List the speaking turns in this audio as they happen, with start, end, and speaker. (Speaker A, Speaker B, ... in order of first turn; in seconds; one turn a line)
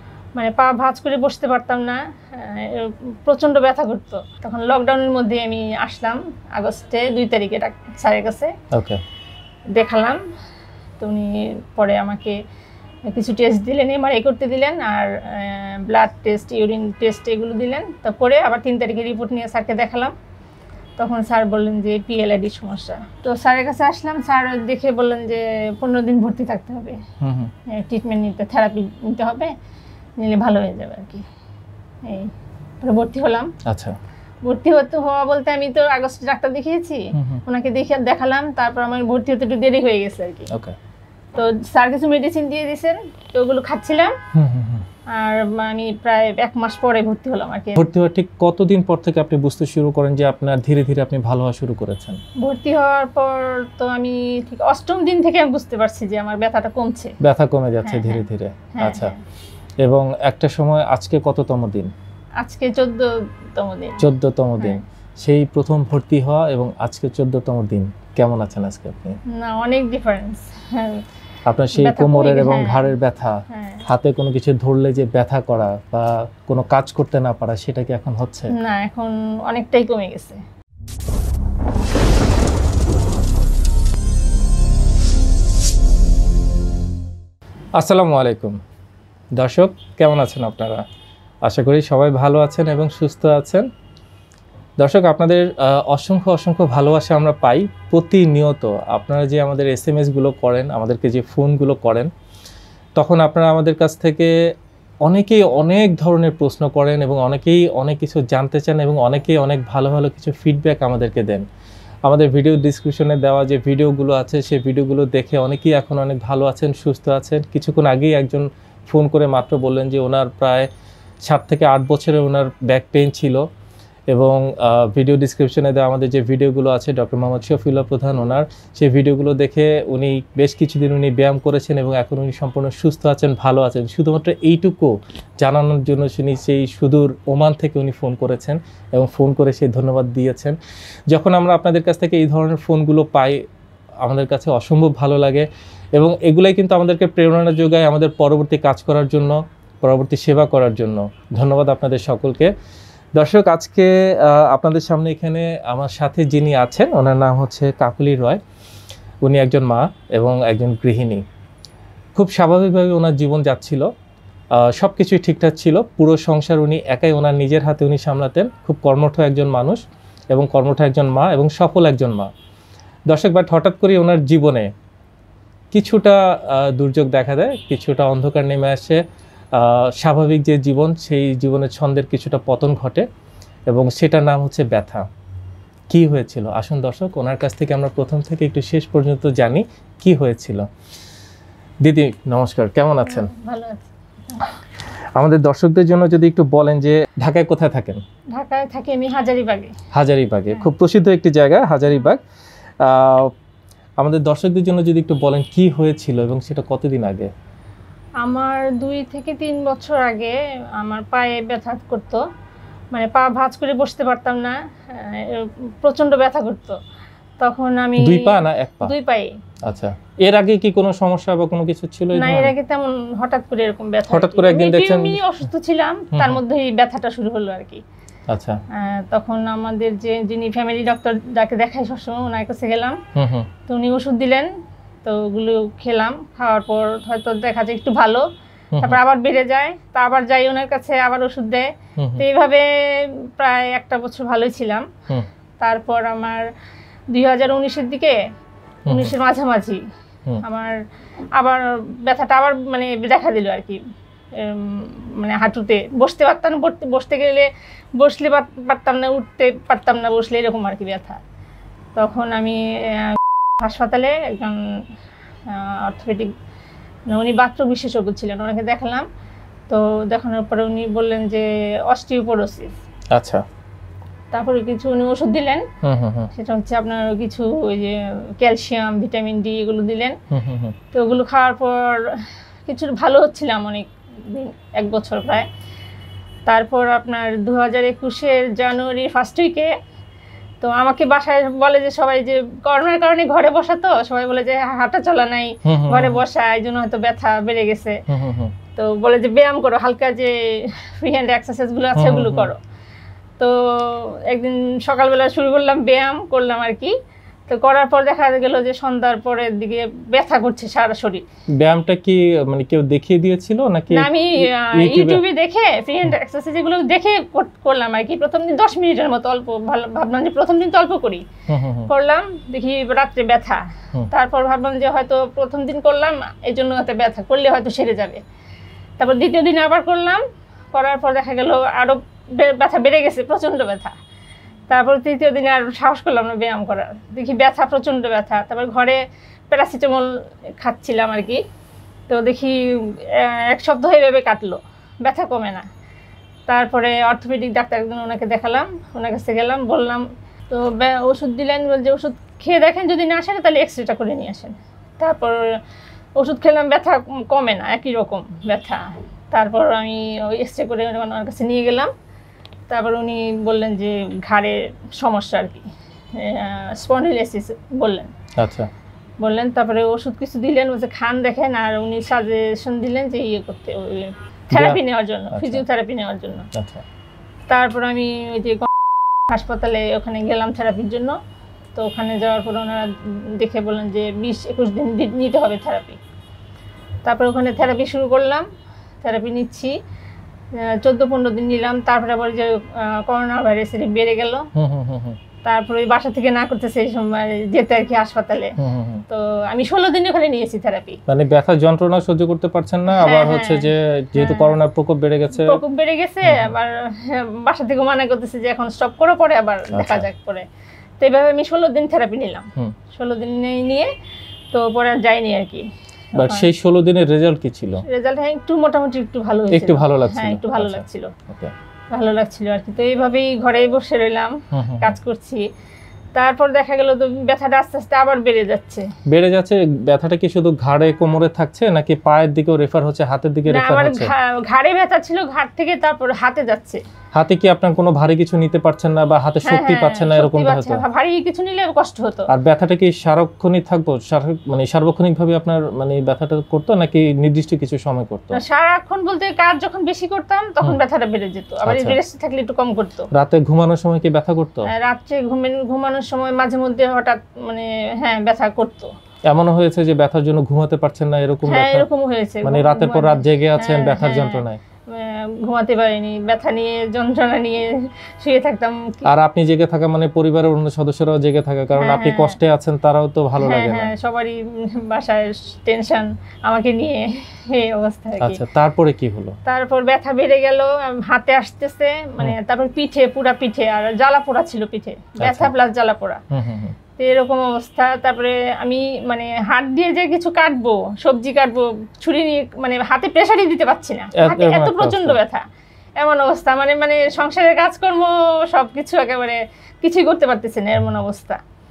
Speaker A: 0.4-8.5
Speaker B: 8.7-9.0
Speaker A: 9.8-10.2
Speaker A: 11.0-12.4
Speaker A: 13.1-20.1
Speaker A: 21.0-27.0
Speaker B: 27.2-27.5
Speaker A: 27.7-29.5
Speaker A: 30.2-31.2
Speaker A: 32.0-33.5
Speaker B: 33.7-34.0
Speaker A: 34.5-40.5
Speaker B: 37.1-37.4
Speaker B: 40.5-40.8
Speaker A: 41.4-44.1
Speaker B: 44.3-44.9
Speaker A: 45.1-47.8
Speaker B: 47.8-52.2
Speaker A: 52.4-57.1
Speaker B: 57.2-59.1
Speaker A: 57.8-58.2
Speaker A: 58.8-59.2
Speaker B: 59.8-61.9
Speaker A: 62.4-64.0
Speaker B: 64.0-69.2
Speaker A: 69.4-71.0
Speaker B: 71.5-78.5
Speaker A: 71.8-72.9
Speaker A: 73.5-73.8
Speaker A: 78.5-80.4
Speaker B: 87.8-88.6
Speaker B: 89.4-90.8
Speaker B: 91.5-93.7
Speaker B: 94.8-102.1
Speaker B: 103.0-104.3
Speaker B: 105.0-111.5
Speaker B: 112.1-120.7
Speaker B: 121.3-123.4
Speaker B: 124.1-140.6
Speaker B: 141.1-143.4
Speaker B: 144.0-152.5
Speaker B: 153.2-158.4
Speaker B: 159.2-161.2
Speaker B: 162.2-163.9
Speaker B: 164.6-169.8
Speaker B: 170.3-172.3
Speaker B: 173.1-174.7
Speaker B: 175.7-179.0
Speaker B: 179.6-183.1
Speaker B: 183.7-185.1
Speaker B: 185.9-190.7
Speaker B: 191.8-193.3
Speaker A: 193.0-194.5
Speaker B: 195.2-198.0
Speaker A: 198.3-199.7
Speaker B: 199.9-202.2
Speaker B: 202.8-203.3
Speaker B: 204.0-207.3
Speaker A: 208.2-212.2
Speaker A: 212.9-216.8
Speaker A: 217.4-219.3
Speaker B: 218.0-218.9
Speaker B: 219.7-222.5
Speaker A: 222.2-227.8
Speaker B: 224.1-225.2
Speaker B: 226.1-226.4
Speaker B: 228.3-228.6
Speaker A: 228.7-233.0
Speaker B: 233.2-233.5
Speaker A: 233.7-234.5
Speaker A: 235.0-238.2
Speaker B: 238.8-239.0
Speaker A: 238.8-244.8
Speaker B: 242.0-242.2
Speaker A: 245.6-246.4
Speaker A: 247.1-248.2
Speaker B: 248.9-249.1
Speaker A: 248.9-249.8
Speaker A: 250.4-250.8
Speaker A: 251.4-253.8
Speaker A: 254.3-261.2
Speaker A: 261.9-264.9
Speaker A: 265.5-266.3
Speaker A: 267.1-269.1
Speaker A: 269.7-272.8
Speaker B: 273.1-273.4
Speaker A: 274.3-275.6
Speaker B: 275.8-276.3
Speaker A: 276.3-280.2
Speaker B: 280.3-280.8
Speaker A: 280.9-285.5
Speaker A: 286.5-289.7
Speaker A: 290.6-298.0
Speaker B: 295.7-296.2
Speaker B: 298.1-298.5
Speaker A: 298.8-302.6
Speaker B: 301.9-302.5
Speaker A: 303.4-306.9
Speaker A: 307.5-311.2
Speaker B: 311.6-315.2
Speaker A: 313.9-321.2
Speaker B: 321.5-321.9
Speaker A: 321.9-328.2
Speaker A: 329.0-334.0
Speaker A: 334.7-341.4
Speaker A: 342.1-345.7
Speaker A: 346.5-355.6
Speaker A: 356.2-361.9
Speaker A: 362.7-365.6
Speaker A: 366.2-368.1
Speaker B: 368.4-368.7
Speaker A: 369.2-376.5
Speaker B: 374.5-375.6
Speaker B: 376.5-376.8
Speaker A: 377.5-378.7
Speaker A: 379.3-381.2
Speaker A: 381.8-386.0
Speaker A: 387.0-388.4
Speaker A: 389.0-389.7
Speaker A: 390.6-394.5
Speaker B: 394.6-395.2
Speaker A: 395.4-398.5
Speaker B: 398.6-399.0
Speaker A: 399.1-401.0
Speaker B: 401.1-405.6
Speaker A: 402.9-404.6
Speaker A: 405.3-410.4
Speaker B: 406.2-406.5
Speaker B: 409.7-410.1
Speaker A: 411.0-413.9
Speaker A: 414.5-416.5
Speaker B: 416.1-417.8
Speaker A: 417.8-421.1
Speaker B: 419.5-421.5
Speaker A: 421.9-425.5
Speaker B: 424.5-425.0
Speaker A: 426.1-428.9
Speaker B: 429.1-434.1
Speaker A: 433.5-436.8
Speaker B: 437.1-440.8
Speaker A: 439.4-442.3
Speaker B: 442.3-448.4
Speaker A: 448.3-453.1
Speaker B: 451.6-452.0
Speaker B: 453.1-454.7
Speaker A: 454.7-458.9
Speaker B: 459.3-461.9
Speaker A: 461.5-469.1
Speaker B: 462.4-464.6
Speaker B: 469.1-473.9
Speaker A: 471.8-472.4
Speaker A: 473.4-478.4
Speaker B: 478.2-479.4
Speaker A: 479.5-486.2
Speaker B: 485.2-485.5
Speaker B: 486.3-486.8
Speaker A: 487.0-495.4
Speaker B: 494.2-495.2
Speaker A: 496.0-501.4